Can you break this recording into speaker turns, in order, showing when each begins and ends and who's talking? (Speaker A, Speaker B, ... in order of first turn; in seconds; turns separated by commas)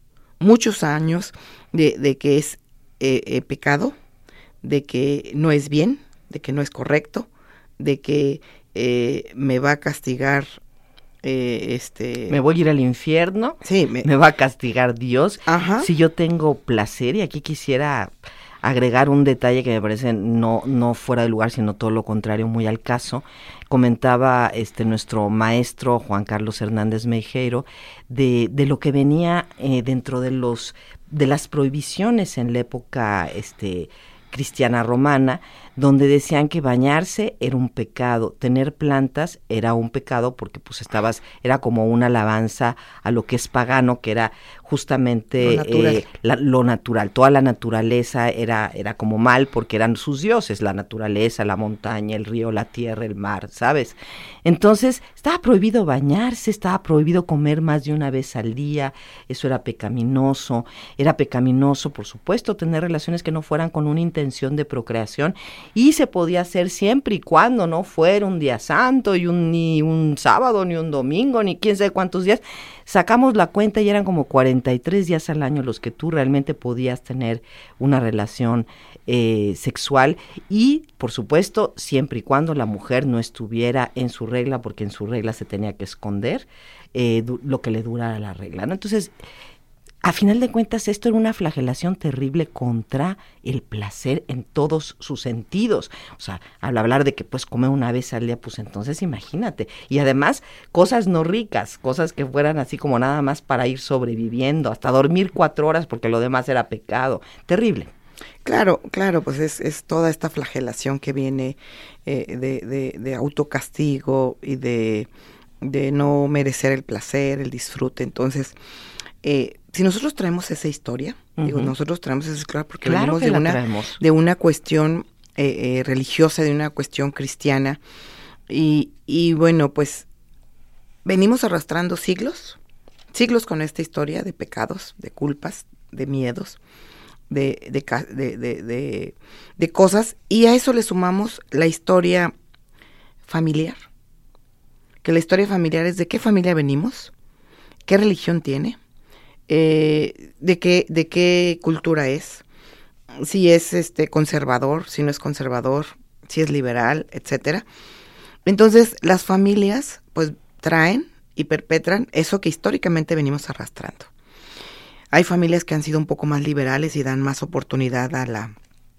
Speaker A: 0.4-3.9, Speaker A: 4.6-10.6, Speaker A: 11.2-12.3, Speaker B: 12.3-18.1, Speaker A: 13.6-14.1, Speaker A: 15.4-15.9, Speaker B: 18.6-89.1, Speaker A: 45.4-46.0, Speaker B: 90.0-107.9, Speaker A: 108.4-115.1, Speaker A: 115.6-118.5, Speaker A: 119.2-127.8, Speaker B: 121.4-121.7, Speaker B: 122.8-124.0, Speaker A: 128.5-130.1, Speaker A: 131.0-132.6, Speaker A: 133.1-136.6, Speaker A: 137.3-142.3, Speaker A: 143.3-143.8, Speaker A: 145.0-147.1, Speaker A: 147.9-148.8, Speaker A: 149.5-152.4, Speaker A: 153.2-157.6, Speaker A: 158.4-164.1, Speaker A: 165.1-168.6